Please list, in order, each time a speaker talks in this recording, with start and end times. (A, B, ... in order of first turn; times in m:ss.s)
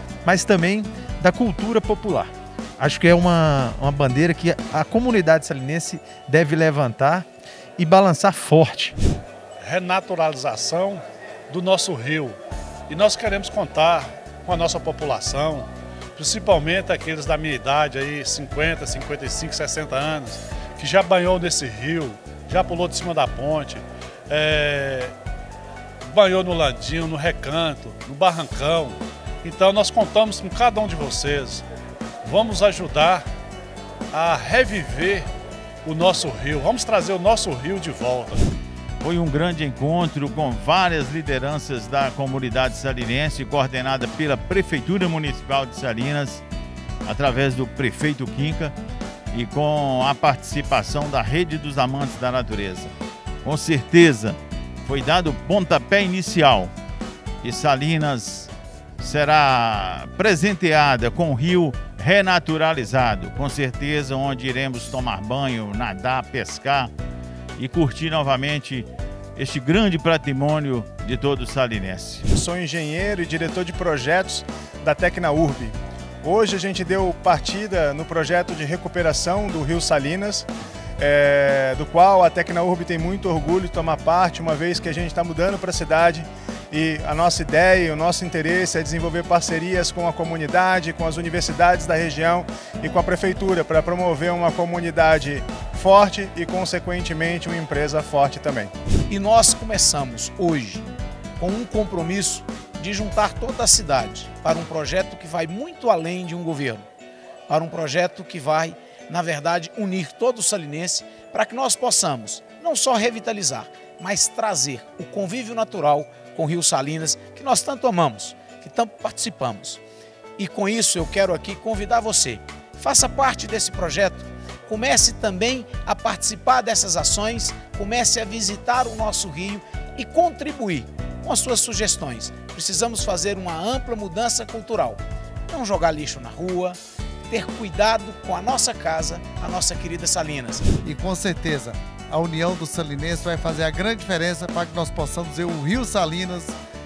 0:00.2-0:07.3 A
0:07.8-0:09.0 A
0:09.6-0:12.4 B
0:12.9-0:25.1 B
0:26.0-0:31.6 B
0:32.2-0:33.2 B
0:34.1-0:35.3 B
0:35.8-0:38.4 B
0:39.0-0:46.4 C
0:47.1-0:48.8 C
0:49.3-0:52.9 C
0:53.4-0:56.7 C
0:57.4-1:06.9 C
1:07.6-1:12.3 C
1:12.3-1:38.7 D
1:39.1-1:40.9 E
1:41.4-1:46.9 E
1:47.5-1:59.8 E
2:00.4-2:20.7 E
2:20.8-2:26.6 F